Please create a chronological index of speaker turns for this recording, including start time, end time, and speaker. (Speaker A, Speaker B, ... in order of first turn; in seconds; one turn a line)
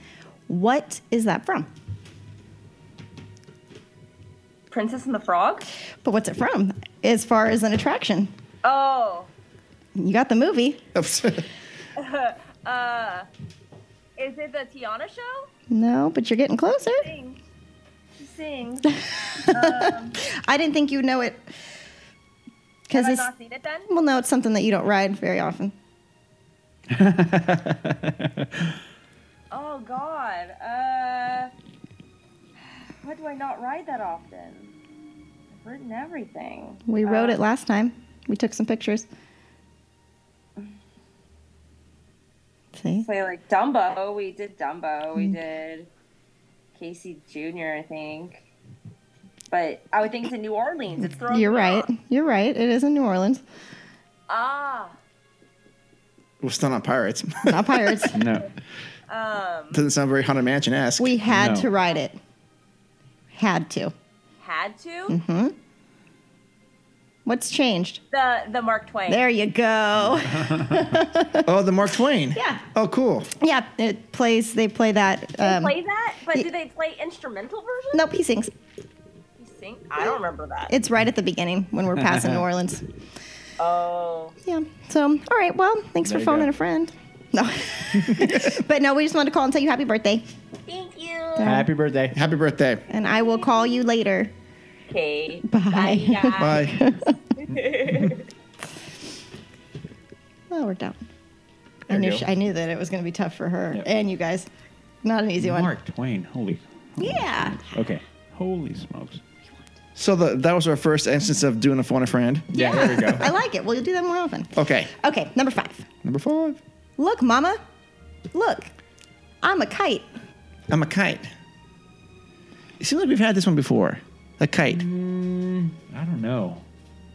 Speaker A: 0.5-1.7
Speaker B: 4.7-5.6
Speaker A: 6.0-8.3
Speaker B: 8.6-9.3
Speaker A: 9.9-10.8
Speaker C: 10.9-11.5
Speaker B: 12.0-13.3
Speaker B: 14.2-15.5
Speaker A: 15.7-17.1
Speaker B: 16.9-17.4
Speaker B: 18.2-20.1
Speaker A: 19.4-21.5
Speaker A: 22.9-23.3
Speaker B: 22.9-23.9
Speaker A: 23.9-25.7
Speaker D: 26.9-28.7
Speaker B: 29.5-31.5
Speaker B: 33.0-34.7
Speaker B: 35.5-37.4
Speaker A: 36.9-39.1
Speaker A: 42.8-43.1
Speaker B: 43.0-45.9
Speaker B: 46.8-48.4
Speaker B: 49.5-51.9
Speaker A: 51.0-53.4
Speaker B: 54.3-54.9
Speaker C: 56.4-58.0
Speaker A: 57.5-58.2
Speaker D: 58.1-58.5
Speaker B: 59.1-59.8
Speaker C: 59.7-61.2
Speaker A: 61.0-62.2
Speaker D: 61.3-61.7
Speaker A: 63.3-63.9
Speaker B: 64.4-65.2
Speaker A: 65.1-65.5
Speaker A: 67.2-68.0
Speaker B: 68.1-69.2
Speaker A: 69.1-71.5
Speaker D: 70.1-70.9
Speaker C: 71.4-73.3
Speaker A: 72.3-72.6
Speaker A: 73.4-75.8
Speaker B: 75.4-78.0
Speaker A: 77.9-78.5
Speaker B: 79.4-80.7
Speaker A: 80.0-82.9
Speaker B: 83.6-84.3
Speaker A: 84.4-90.3
Speaker D: 86.0-86.5
Speaker C: 88.1-88.5
Speaker B: 90.7-91.6
Speaker A: 91.4-91.7
Speaker D: 91.4-92.2
Speaker C: 92.1-92.8
Speaker A: 92.9-94.3
Speaker B: 92.9-93.8
Speaker B: 94.9-96.7
Speaker A: 95.5-97.1
Speaker C: 96.4-96.8
Speaker B: 97.3-98.3
Speaker A: 100.5-101.0
Speaker D: 101.9-102.2
Speaker A: 101.9-104.5
Speaker A: 105.0-105.7
Speaker D: 105.4-109.2
Speaker A: 107.0-107.6
Speaker C: 110.0-112.5
Speaker A: 112.5-115.9
Speaker D: 112.5-113.3
Speaker C: 114.5-114.9
Speaker C: 116.0-116.6
Speaker A: 117.0-117.6
Speaker A: 118.3-118.7
Speaker A: 119.4-120.1
Speaker C: 120.7-121.3
Speaker C: 122.8-124.8
Speaker D: 124.7-126.6